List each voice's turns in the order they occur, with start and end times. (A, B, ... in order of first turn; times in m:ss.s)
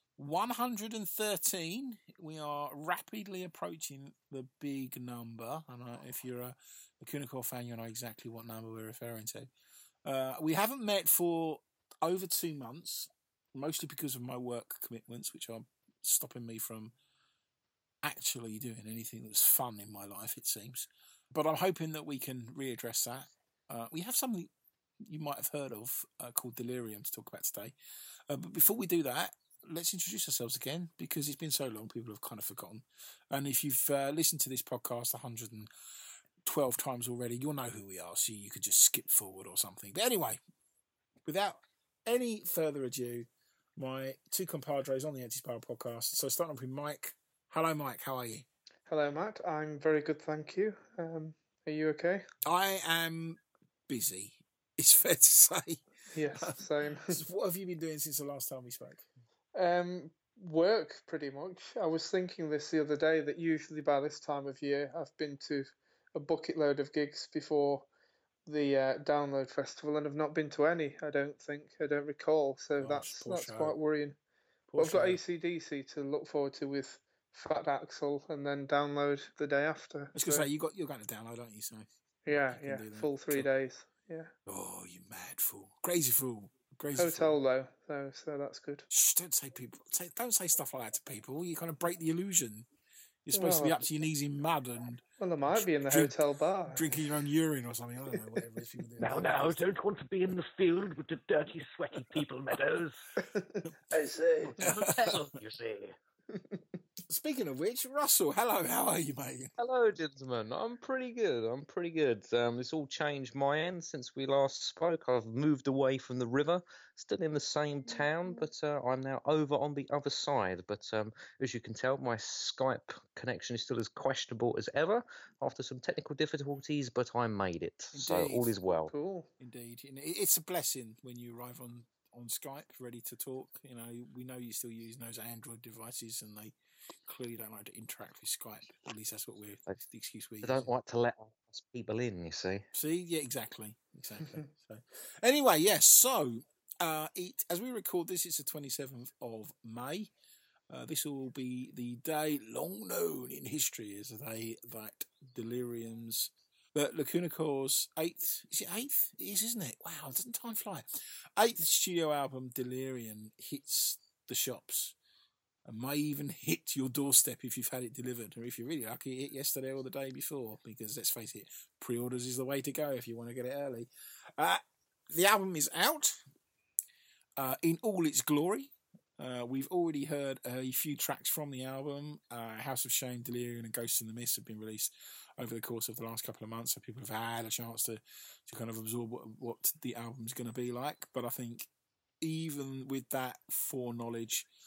0:00.2-0:09.5 A
0:10.0-0:16.9 A
0:18.0-0:24.5 A
0:25.0-0:27.8 A
0:28.3-0:35.7 A
0:36.4-0:40.4 A
0:41.3-0:48.5 A
0:48.9-0:52.3 B
0:52.4-0:55.8 A
0:56.1-0:57.2 B
0:56.3-0:59.1 A
0:59.6-1:07.9 B
1:08.5-1:14.2 B
1:12.8-1:13.8 A
1:14.7-1:15.2 A
1:14.8-1:20.5 B
1:20.1-1:21.9 A
1:22.3-1:24.3 B
1:22.4-1:23.5 A
1:24.5-1:27.4 A
1:27.0-1:28.9 B
1:28.9-1:32.7 A
1:33.3-1:39.6 A
1:33.3-1:33.8 B
1:35.2-1:37.1 B
1:39.0-1:43.0 C
1:43.3-1:43.7 B
1:43.9-1:45.9 C
1:44.6-1:45.1 A
1:47.1-1:49.5 A
1:49.6-2:08.9 C
2:07.9-2:08.6 A
2:08.9-2:09.3 B
2:09.4-2:16.6 A
2:17.1-2:20.7 A
2:20.4-2:22.7 C
2:22.7-2:30.1 A
2:30.7-2:40.9 A
2:41.4-2:45.0 A
2:45.6-2:56.2 A
2:57.4-3:11.7 A
3:12.2-3:14.5 A